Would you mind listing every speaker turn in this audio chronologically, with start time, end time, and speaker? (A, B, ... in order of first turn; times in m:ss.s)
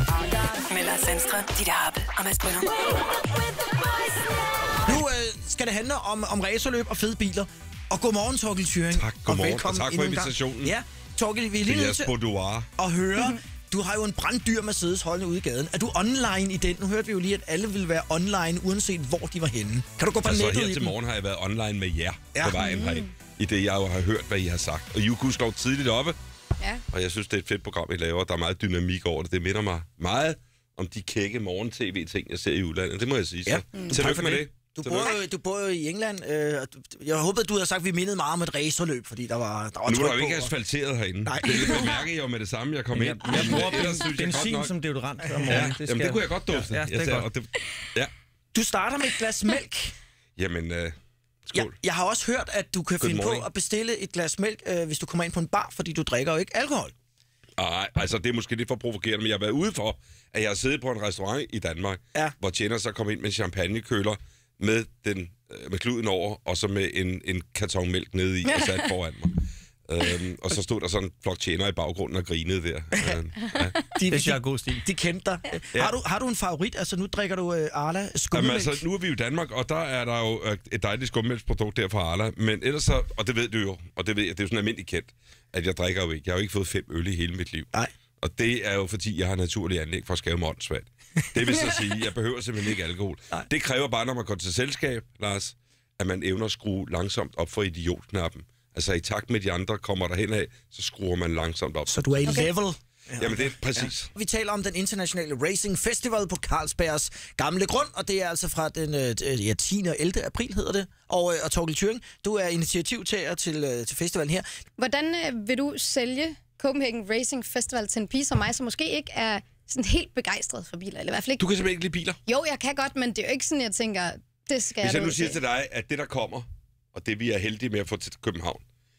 0:00.5-0:04.3 A
0:04.9-0:12.2 B
0:08.9-0:10.8 C
0:11.6-0:12.7 C
0:12.8-0:21.0 B
0:20.2-0:26.2 C
0:22.6-0:23.1 D
0:26.9-0:35.2 C
0:33.4-0:40.6 B
0:33.8-0:34.0 D
0:39.9-0:44.7 C
0:41.2-0:42.0 B
0:42.9-0:47.3 E
0:45.5-0:48.1 C
0:48.5-0:49.9 B
0:50.4-0:51.8 C
0:51.5-0:56.9 B
0:53.0-0:53.5 C
0:57.6-1:13.8 C
1:14.0-1:18.8 B
1:14.1-1:14.8 E
1:18.3-1:42.4 C
1:41.9-1:54.4 B
1:42.2-1:42.5 D
1:43.2-1:44.1 C
1:54.8-2:01.5 D
2:01.4-2:02.2 C
2:02.3-2:05.4 D
2:04.8-2:08.6 C